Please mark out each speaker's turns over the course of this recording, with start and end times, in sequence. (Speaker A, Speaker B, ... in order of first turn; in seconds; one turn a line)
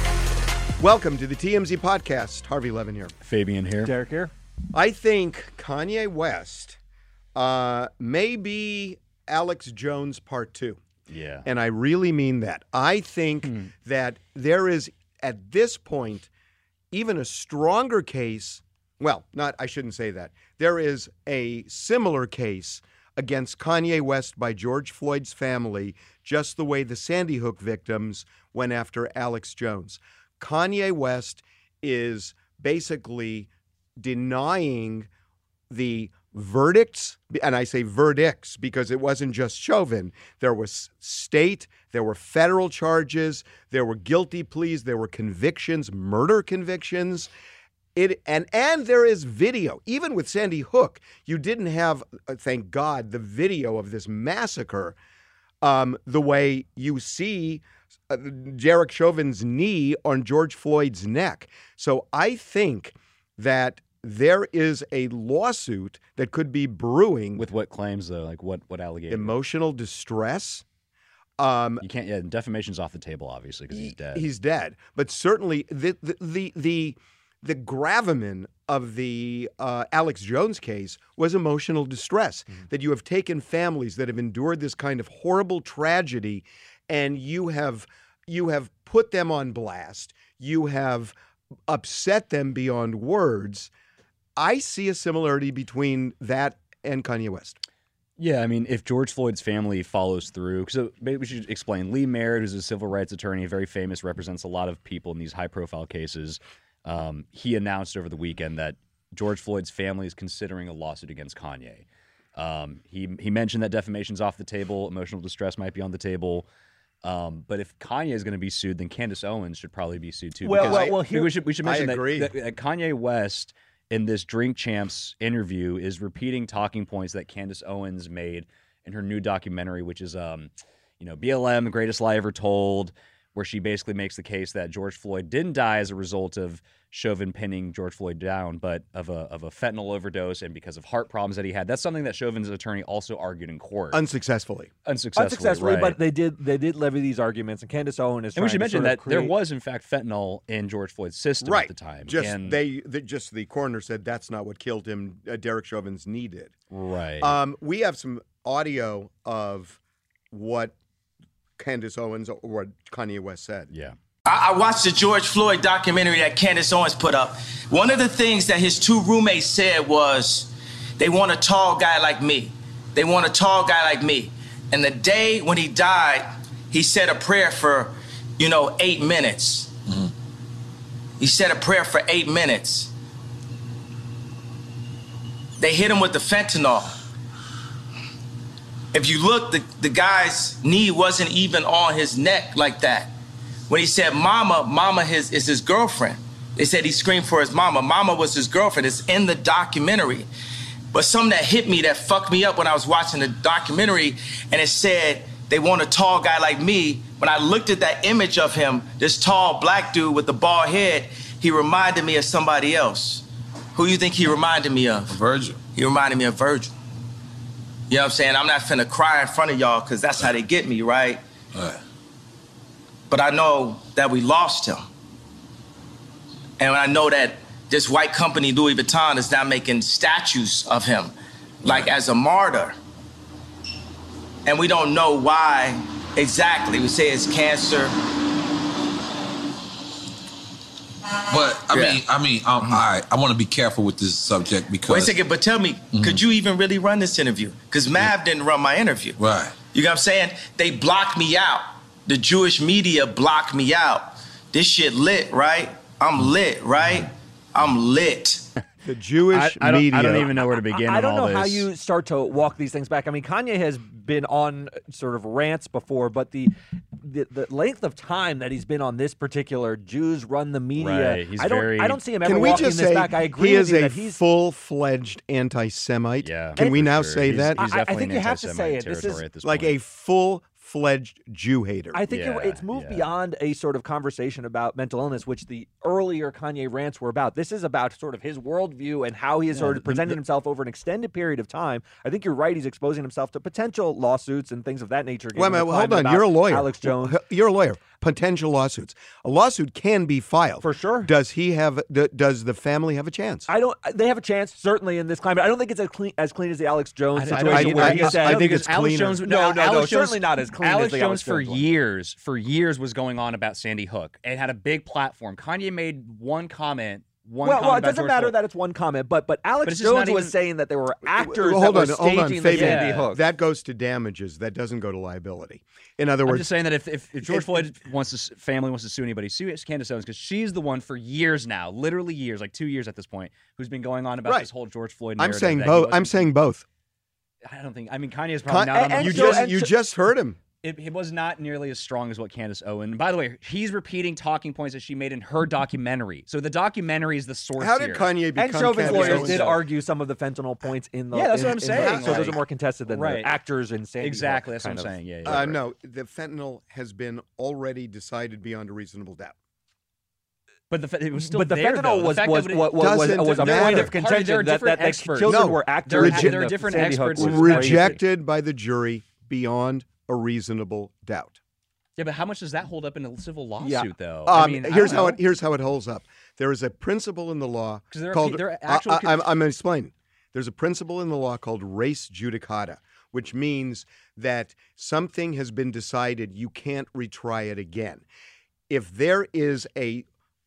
Speaker A: 0.8-3.1
Speaker B: 3.2-3.9
Speaker C: 3.8-4.3
Speaker A: 4.7-6.8
Speaker A: 7.3-10.8
Speaker B: 11.1-11.5
Speaker A: 11.5-16.3
Speaker B: 13.4-13.7
Speaker A: 16.9-35.1
Speaker A: 35.7-47.3
Speaker A: 48.0-55.0
Speaker A: 55.6-67.4
Speaker B: 67.4-69.3
Speaker A: 69.1-70.6
Speaker A: 71.4-71.8
Speaker B: 71.8-74.3
Speaker A: 73.7-91.2
Speaker A: 91.7-93.7
Speaker A: 94.4-97.6
Speaker B: 98.2-116.5
Speaker B: 117.0-144.0
Speaker C: 120.4-121.3
Speaker A: 120.5-122.3
Speaker A: 143.9-144.7
Speaker B: 144.8-146.0
Speaker C: 145.2-149.3
Speaker B: 148.4-152.6
Speaker A: 151.4-156.6
Speaker B: 156.7-157.4
Speaker A: 157.2-159.8
Speaker A: 160.3-160.8
Speaker A: 161.6-163.7
Speaker B: 163.7-164.0
Speaker D: 164.3-179.7
Speaker D: 181.2-182.9
Speaker D: 185.6-187.0
Speaker D: 188.9-193.1
Speaker D: 193.7-200.3
Speaker D: 200.9-215.2
Speaker E: 215.1-215.6
Speaker D: 215.8-216.7
Speaker D: 217.9-221.2
Speaker E: 221.5-221.8
Speaker D: 223.1-224.8
Speaker D: 226.6-232.8
Speaker E: 231.7-231.9
Speaker D: 234.5-238.0
Speaker E: 241.3-245.2
Speaker D: 241.7-242.0
Speaker D: 244.9-249.2
Speaker E: 245.9-246.2
Speaker E: 249.2-249.6
Speaker D: 249.7-258.5
Speaker A: 258.9-260.3
Speaker B: 259.3-261.7
Speaker C: 260.6-274.2
Speaker B: 270.8-272.5
Speaker A: 272.2-277.6
Speaker B: 276.2-279.8
Speaker C: 276.6-279.2
Speaker A: 279.4-282.0
Speaker C: 281.9-297.2
Speaker B: 282.1-283.1
Speaker B: 289.5-290.2
Speaker A: 295.4-303.5
Speaker C: 300.6-301.1
Speaker C: 303.5-308.5
Speaker B: 307.1-318.4
Speaker A: 307.4-309.2
Speaker C: 309.2-311.7
Speaker C: 317.4-323.2
Speaker B: 319.6-320.4
Speaker A: 321.1-326.6
Speaker B: 322.5-323.1
Speaker B: 326.2-336.3
Speaker A: 327.3-327.6
Speaker A: 334.2-334.5
Speaker A: 335.2-336.6
Speaker B: 337.5-339.6
Speaker A: 338.5-340.4
Speaker C: 338.7-339.7
Speaker B: 340.6-349.6
Speaker A: 347.6-349.5
Speaker C: 348.4-354.9
Speaker B: 351.1-353.3
Speaker A: 351.7-352.4
Speaker B: 354.0-355.6
Speaker A: 355.3-359.4
Speaker B: 360.7-368.0
Speaker C: 361.2-368.0
Speaker A: 362.8-364.0
Speaker A: 365.2-366.5
Speaker A: 367.2-371.4
Speaker B: 372.0-375.2
Speaker C: 373.6-373.9
Speaker A: 374.3-388.0
Speaker B: 377.9-379.3
Speaker A: 388.7-390.1